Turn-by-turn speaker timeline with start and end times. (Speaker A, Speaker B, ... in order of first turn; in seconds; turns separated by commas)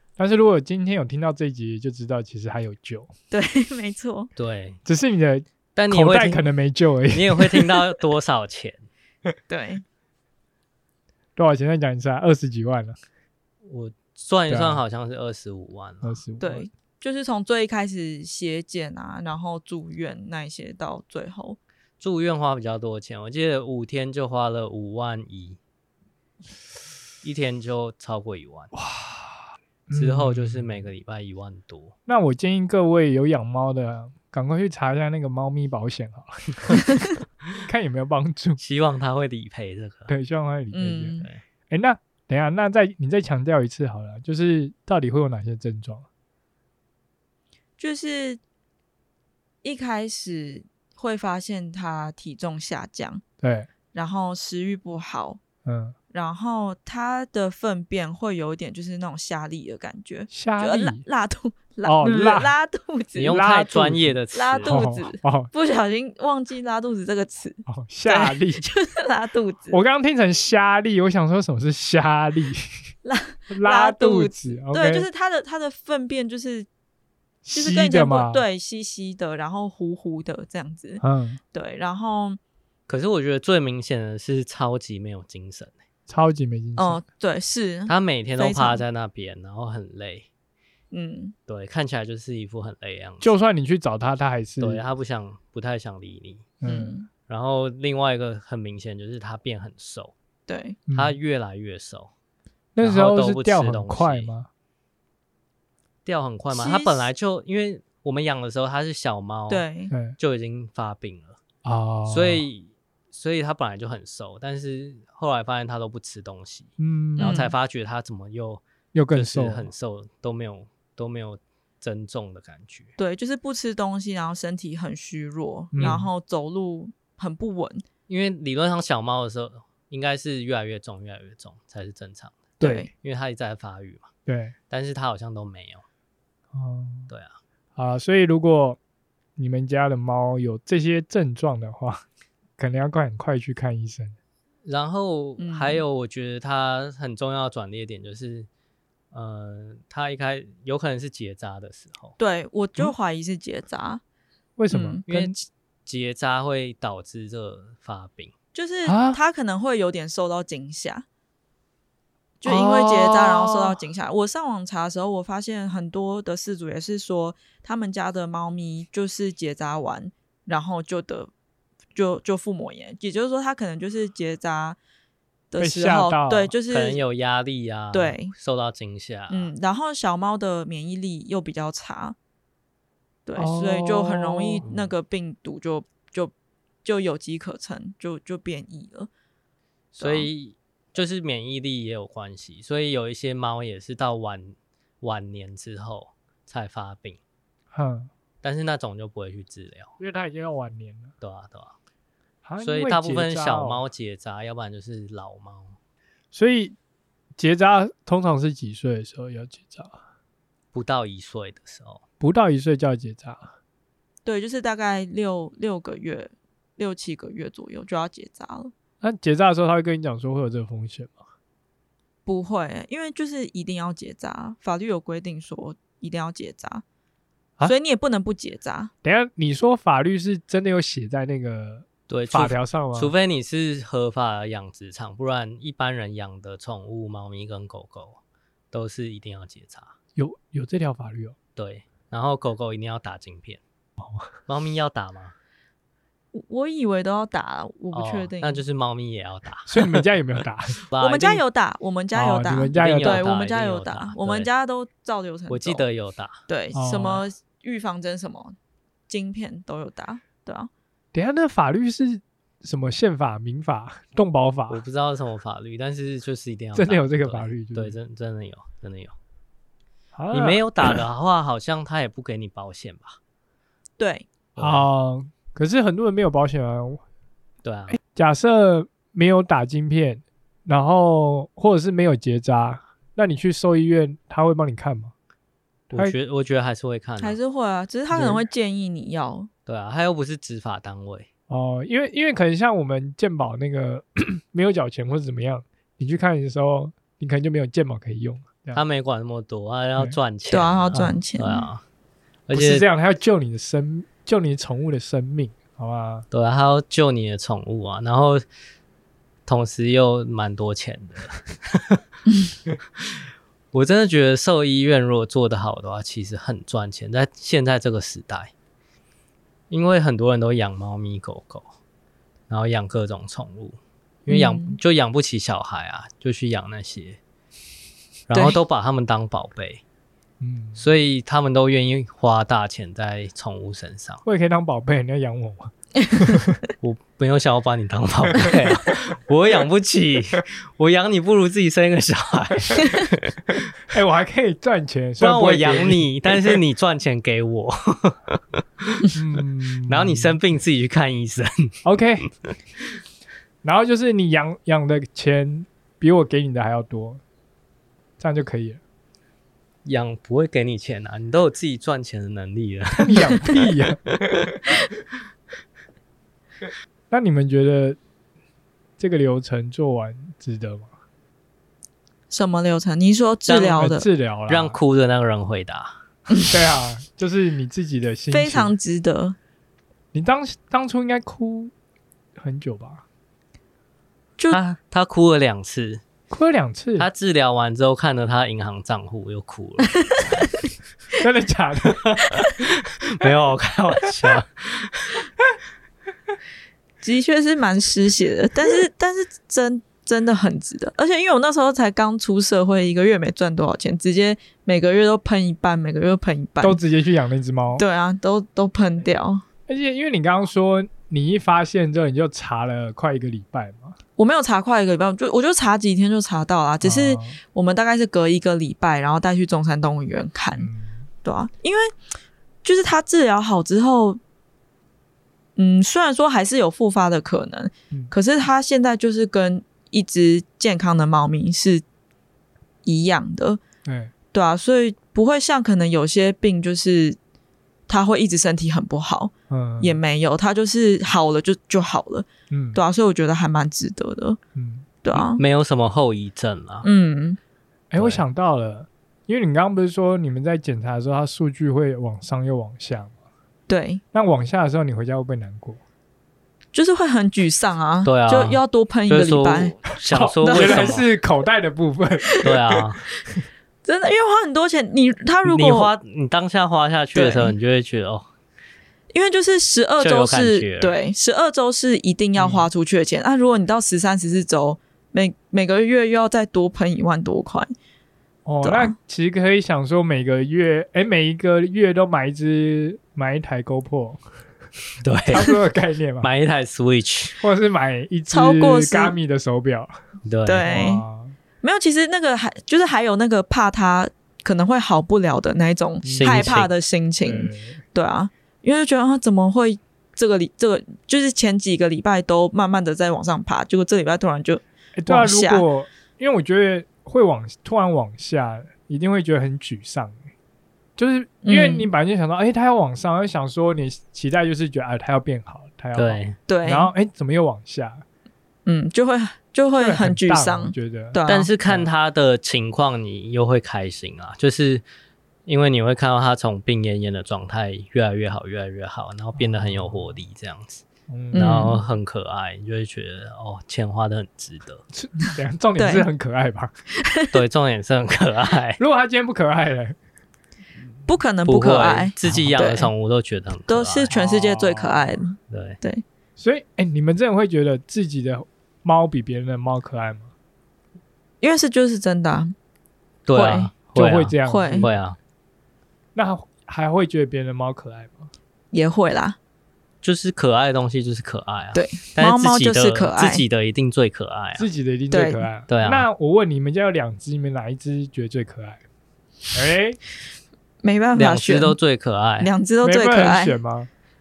Speaker A: 0.2-3.1, Speaker B: 3.3-4.3, Speaker C: 4.4-4.8, Speaker A: 4.8-7.8, Speaker C: 5.8-6.5, Speaker C: 7.1-8.9, Speaker B: 9.5-9.8, Speaker A: 11.4-13.0, Speaker C: 13.6-16.2, Speaker A: 14.5-14.8, Speaker A: 16.0-16.7, Speaker B: 16.4-21.6, Speaker C: 22.0-25.6, Speaker C: 27.2-28.7, Speaker A: 28.7-30.9, Speaker C: 29.9-31.9, Speaker A: 32.1-37.0, Speaker A: 37.6-38.6, Speaker C: 38.6-40.1, Speaker A: 40.1-46.1, Speaker B: 40.7-41.3, Speaker B: 47.8-48.4, Speaker B: 49.6-53.2, Speaker A: 53.4-53.7, Speaker B: 53.9-55.4, Speaker A: 55.6-56.0, Speaker B: 56.1-63.4, Speaker A: 60.3-61.0, Speaker A: 61.9-62.5, Speaker C: 63.2-64.8, Speaker A: 63.3-65.5, Speaker B: 64.3-69.8, Speaker A: 67.7-68.6, Speaker A: 69.7-72.8, Speaker B: 73.0-76.7, Speaker A: 73.5-75.1, Speaker A: 77.5-78.5, Speaker B: 77.5-82.4, Speaker A: 81.0-81.4, Speaker C: 82.9-85.8, Speaker A: 86.1-87.0, Speaker B: 86.8-88.8, Speaker C: 87.9-90.3, Speaker B: 90.9-91.4, Speaker C: 91.5-93.3, Speaker A: 93.2-94.8, Speaker C: 94.6-96.5, Speaker A: 96.6-97.0, Speaker B: 96.6-97.1, Speaker C: 97.3-100.1, Speaker B: 100.5-100.8, Speaker A: 100.9-101.1, Speaker C: 100.9-102.1, Speaker A: 102.8-104.5, Speaker C: 102.8-104.3, Speaker C: 106.0-109.7, Speaker B: 106.5-107.1, Speaker B: 109.5-109.9, Speaker A: 109.9-110.2, Speaker C: 110.2-111.4, Speaker A: 111.6-112.4, Speaker C: 112.1-122.9, Speaker A: 116.8-117.4, Speaker B: 117.2-117.5, Speaker A: 118.9-119.7, Speaker B: 123.0-127.8, Speaker A: 125.7-126.1, Speaker C: 128.1-134.1, Speaker B: 132.6-132.9, Speaker A: 134.3-134.6, Speaker C: 134.7-135.8, Speaker A: 136.5-137.1, Speaker C: 137.1-137.4, Speaker A: 137.8-138.8, Speaker A: 139.4-142.1, Speaker A: 142.6-144.2, Speaker C: 144.7-148.5, Speaker B: 145.4-145.8, Speaker C: 149.1-152.2, Speaker B: 152.2-154.0, Speaker A: 154.6-155.3, Speaker B: 154.7-155.0, Speaker C: 155.1-158.3, Speaker B: 158.5-161.1, Speaker A: 158.9-159.2, Speaker B: 162.4-171.3, Speaker A: 162.4-163.8, Speaker B: 171.9-174.8, Speaker B: 175.5-177.0, Speaker A: 175.6-176.5, Speaker C: 176.7-179.5, Speaker B: 177.9-178.3, Speaker B: 179.3-182.2, Speaker B: 183.3-186.3, Speaker A: 183.4-184.7, Speaker C: 184.6-184.9, Speaker B: 186.8-189.1, Speaker B: 189.9-190.3, Speaker C: 190.0-197.2, Speaker A: 197.7-198.1, Speaker C: 198.4-199.9, Speaker A: 200.0-201.1, Speaker C: 201.2-201.8, Speaker A: 202.4-203.8, Speaker C: 202.6-205.8, Speaker A: 206.3-206.8, Speaker A: 207.4-210.0, Speaker C: 210.7-212.0, Speaker A: 212.2-213.5, Speaker B: 214.2-218.7, Speaker A: 219.0-221.2, Speaker B: 222.3-226.8, Speaker B: 227.6-228.9, Speaker A: 229.0-233.1, Speaker C: 232.1-238.2, Speaker C: 238.7-239.9, Speaker A: 240.2-241.4, Speaker C: 241.6-243.6, Speaker A: 244.0-244.3, Speaker C: 244.5-245.3, Speaker B: 246.3-248.6, Speaker C: 247.9-250.1, Speaker A: 249.7-250.8, Speaker C: 250.8-251.4, Speaker B: 251.0-255.9, Speaker A: 252.1-253.2, Speaker C: 252.7-254.5, Speaker C: 255.5-256.4, Speaker B: 256.5-258.6, Speaker A: 256.7-257.3, Speaker B: 259.1-260.7, Speaker A: 261.1-264.8, Speaker C: 264.7-269.1, Speaker A: 266.8-268.0, Speaker A: 270.1-271.0, Speaker C: 270.3-273.2, Speaker B: 274.0-274.3, Speaker C: 274.6-274.9, Speaker A: 274.6-277.0, Speaker C: 277.6-278.0, Speaker A: 277.9-285.1, Speaker C: 285.9-287.4, Speaker B: 287.2-289.5, Speaker A: 288.1-288.5, Speaker C: 289.7-291.3, Speaker A: 291.5-298.8, Speaker C: 298.7-301.8, Speaker B: 300.5-301.7, Speaker C: 302.5-302.9, Speaker A: 302.5-306.3, Speaker C: 306.3-308.4, Speaker C: 309.5-312.0, Speaker C: 313.7-318.5, Speaker C: 319.7-321.7, Speaker C: 322.5-327.2, Speaker B: 324.3-324.8, Speaker C: 328.3-329.8, Speaker B: 328.3-328.6, Speaker A: 330.4-330.8, Speaker C: 330.8-334.2, Speaker A: 334.2-336.6, Speaker B: 336.0-336.4, Speaker C: 336.8-343.7, Speaker A: 343.8-346.6, Speaker C: 345.2-349.1, Speaker A: 349.1-350.4, Speaker C: 349.9-351.8, Speaker A: 351.8-352.3, Speaker A: 353.6-357.2, Speaker A: 358.2-358.8, Speaker C: 359.9-363.6, Speaker A: 363.0-364.0, Speaker C: 364.3-364.6, Speaker A: 367.1-368.0, Speaker A: 369.0-370.9, Speaker B: 372.3-374.1, Speaker A: 373.5-374.8, Speaker C: 374.5-376.0, Speaker A: 376.5-378.7, Speaker B: 378.3-379.4, Speaker A: 380.1-381.7, Speaker A: 382.4-383.0, Speaker C: 384.5-386.0, Speaker A: 386.3-387.1, Speaker C: 387.0-389.9, Speaker A: 391.2-392.2, Speaker C: 391.9-395.2, Speaker B: 397.0-406.8, Speaker A: 406.6-407.8, Speaker B: 407.8-409.4, Speaker A: 409.7-414.0, Speaker B: 414.2-420.7, Speaker A: 416.8-417.4, Speaker A: 420.6-421.1, Speaker B: 421.2-421.9, Speaker B: 422.6-424.2, Speaker B: 425.6-431.8, Speaker B: 432.9-433.6, Speaker A: 433.9-434.1, Speaker B: 434.3-437.2, Speaker B: 437.9-444.4, Speaker A: 439.5-440.0, Speaker A: 442.5-442.8, Speaker A: 444.6-444.9, Speaker B: 445.0-445.4, Speaker C: 445.1-446.9, Speaker B: 446.8-447.4, Speaker A: 447.9-453.1, Speaker C: 448.0-448.2, Speaker B: 453.7-454.0, Speaker A: 454.1-455.8, Speaker B: 456.7-459.9, Speaker C: 458.1-461.1, Speaker A: 460.1-462.5, Speaker B: 460.4-461.0, Speaker B: 462.2-462.5, Speaker C: 462.4-463.0, Speaker B: 463.9-465.9, Speaker C: 465.4-468.3, Speaker B: 467.1-467.6, Speaker B: 469.1-477.7, Speaker C: 470.0-471.0, Speaker A: 472.4-472.7, Speaker A: 478.5-484.2, Speaker B: 478.6-478.9, Speaker C: 485.0-485.5, Speaker A: 485.3-486.3, Speaker C: 486.2-487.4, Speaker A: 487.4-489.9, Speaker B: 488.3-489.2, Speaker C: 490.2-490.8, Speaker B: 490.5-491.0, Speaker A: 490.6-491.4, Speaker B: 491.6-505.7, Speaker A: 496.0-496.6, Speaker C: 496.1-496.7, Speaker A: 497.2-497.8, Speaker A: 505.0-510.2, Speaker A: 511.0-518.0, Speaker B: 511.4-511.9, Speaker C: 516.0-516.4, Speaker B: 516.5-516.9, Speaker B: 518.7-521.5, Speaker A: 519.8-521.9, Speaker C: 521.3-524.8, Speaker C: 525.5-534.8, Speaker A: 529.4-530.2, Speaker A: 531.1-531.8, Speaker B: 531.3-531.8, Speaker A: 534.9-536.7, Speaker B: 535.8-536.1, Speaker B: 537.0-537.4, Speaker C: 537.3-538.8, Speaker A: 538.8-540.0, Speaker B: 541.1-542.9, Speaker C: 541.5-544.1, Speaker B: 543.7-546.0, Speaker A: 544.1-545.2, Speaker C: 545.5-545.8, Speaker A: 546.4-550.3, Speaker B: 551.4-552.5, Speaker C: 553.3-555.2, Speaker B: 553.3-553.7, Speaker A: 553.9-554.9, Speaker B: 554.5-554.9, Speaker A: 556.1-558.3, Speaker B: 558.7-559.4, Speaker C: 560.0-564.7, Speaker B: 561.7-563.4, Speaker A: 564.6-568.8, Speaker B: 565.1-565.5, Speaker C: 565.7-566.1, Speaker A: 569.5-570.0, Speaker B: 570.8-571.8, Speaker C: 571.1-572.5, Speaker B: 572.4-573.6, Speaker A: 572.8-573.9